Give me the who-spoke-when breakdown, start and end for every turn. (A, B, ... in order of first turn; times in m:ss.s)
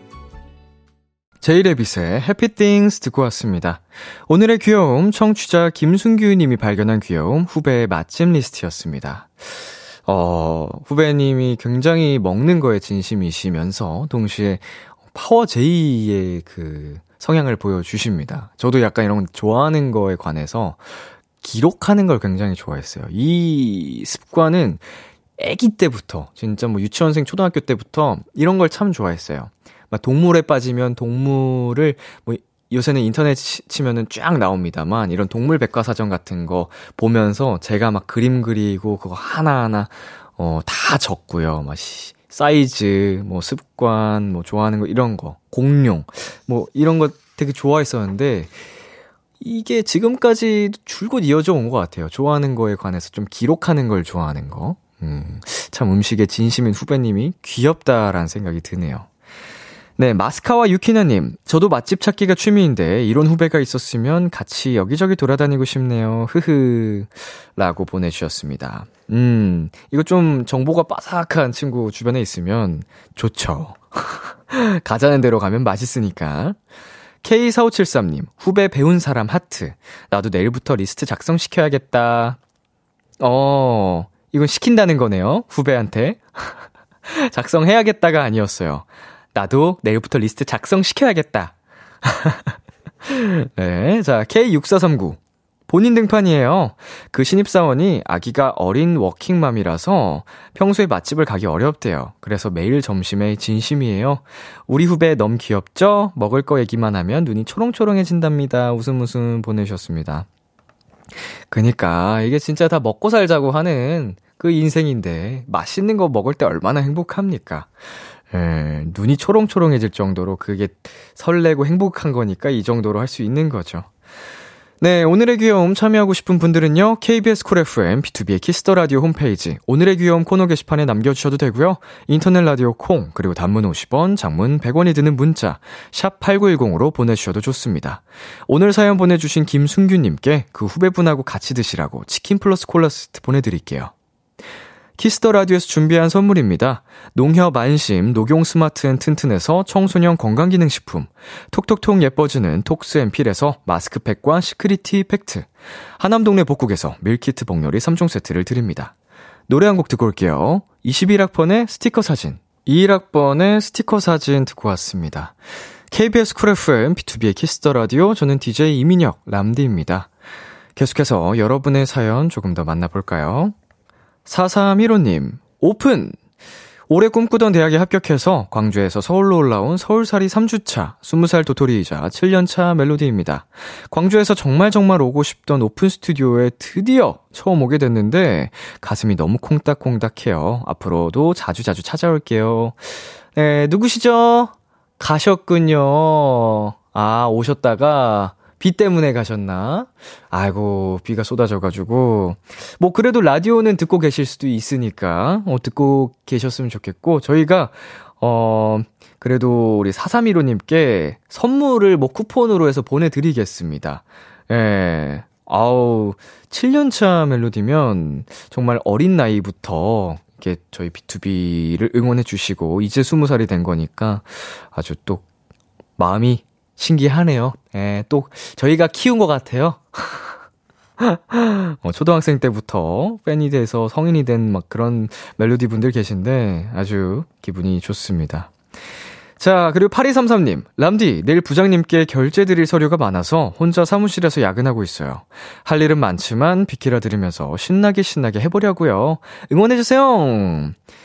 0:01.4-0:20.9 A
0:21.4-0:48.6 A
0:49.4-0:59.1 A
1:00.0-1:16.6 A
1:17.2-1:22.4 A
1:23.2-1:50.3 A
1:51.5-1:57.7 A
1:58.3-2:03.9 A
2:04.8-2:23.9 A
2:25.0-2:38.9 A
2:39.5-2:45.4 A
2:45.9-2:50.1 A
2:50.8-2:53.6 A
2:54.3-2:56.2 A
2:56.9-3:45.2 A
3:46.0-3:50.3 A
3:51.0-3:58.5 A
3:59.4-4:10.8 A